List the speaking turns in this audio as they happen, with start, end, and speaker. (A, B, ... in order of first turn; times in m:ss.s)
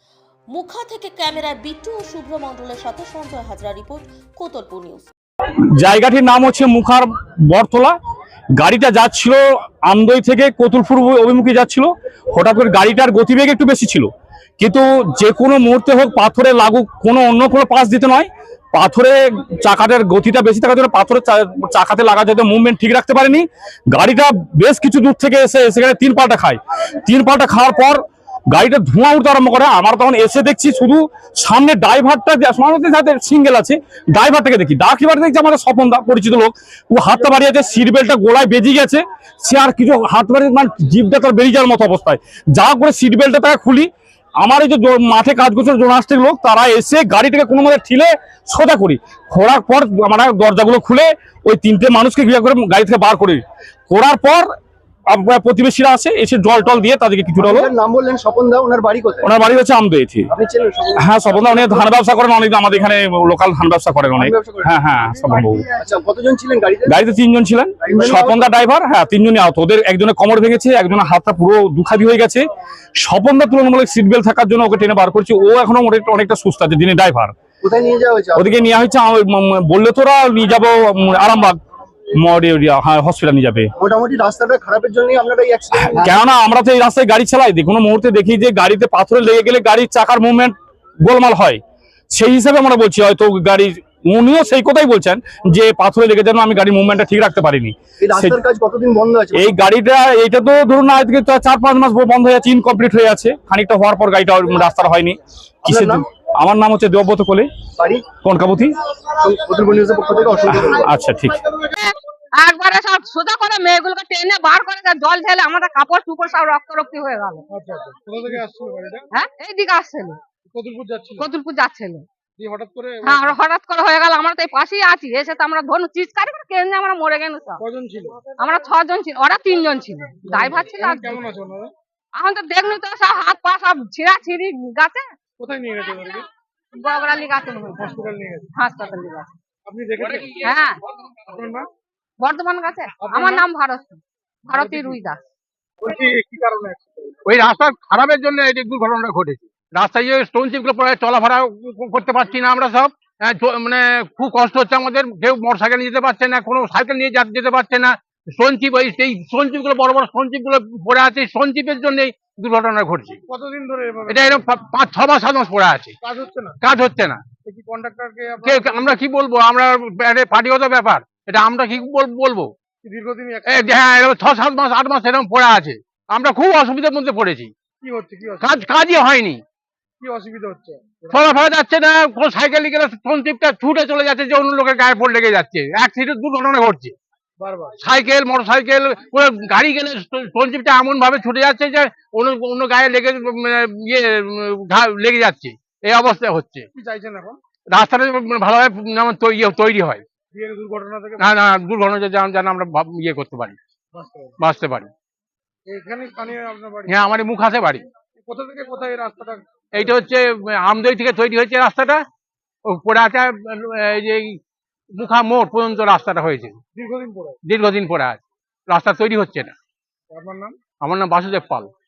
0:00.5-0:05.1 A
0:05.8-0:08.0 B
0:08.6-0:43.9 B
0:44.4-0:54.5 B
0:55.1-0:57.7 B
0:57.4-0:59.3 C
0:59.2-1:00.3 B
1:00.3-1:01.9 C
1:01.0-1:05.6 B
1:04.2-1:07.0 C
1:06.9-1:12.4 B
1:07.8-1:08.4 C
1:13.0-1:17.3 B
1:17.6-1:18.5 C
1:18.4-1:21.6 B
1:22.2-1:23.7 B
1:23.8-1:26.2 C
1:25.8-1:38.4 B
1:38.0-1:39.6 C
1:39.3-1:47.5 B
1:45.7-1:46.0 C
1:47.8-1:48.1 C
1:48.2-1:48.8 B
1:49.1-1:50.8 C
1:50.5-1:51.5 B
1:51.7-1:57.4 D
1:57.5-1:59.1 E
1:59.1-2:00.2 D
2:00.5-2:01.3 E
2:01.2-2:02.0 D
2:02.4-2:03.4 E
2:03.0-2:07.6 D
2:07.6-2:08.3 E
2:08.4-2:11.2 D
2:10.2-2:11.7 E
2:12.2-2:15.1 D
2:15.4-2:16.2 E
2:16.7-2:19.3 D
2:17.8-2:18.5 E
2:19.7-2:20.3 E
2:20.0-2:20.4 F
2:20.4-2:20.8 D
2:21.3-2:21.6 E
2:22.2-2:25.2 D
2:23.0-2:23.4 E
2:24.5-2:25.0 E
2:25.8-2:27.1 E
2:27.3-2:43.2 F
2:43.4-2:44.4 E
2:44.1-2:46.0 F
2:46.1-2:46.5 E
2:46.6-2:47.2 F
2:47.4-2:49.0 E
2:48.4-2:52.5 F
2:52.8-2:53.8 E
2:53.5-2:57.5 F
2:57.8-2:58.5 E
2:58.4-2:59.4 F
3:00.0-3:01.3 E
3:01.1-3:06.9 F
3:07.4-3:07.8 E
3:07.8-3:16.7 F
3:16.8-3:17.4 E
3:17.7-3:20.0 F
3:20.4-3:21.2 E
3:21.2-3:23.6 F
3:24.0-3:24.3 E
3:24.4-3:24.9 F
3:25.7-3:26.9 E
3:26.9-3:27.8 F
3:28.3-3:29.9 E
3:29.8-3:32.0 F
3:32.7-3:34.4 F
3:35.0-3:36.6 F
3:36.8-3:37.4 E
3:37.5-3:39.6 F
3:40.1-3:40.5 E
3:40.8-3:41.7 F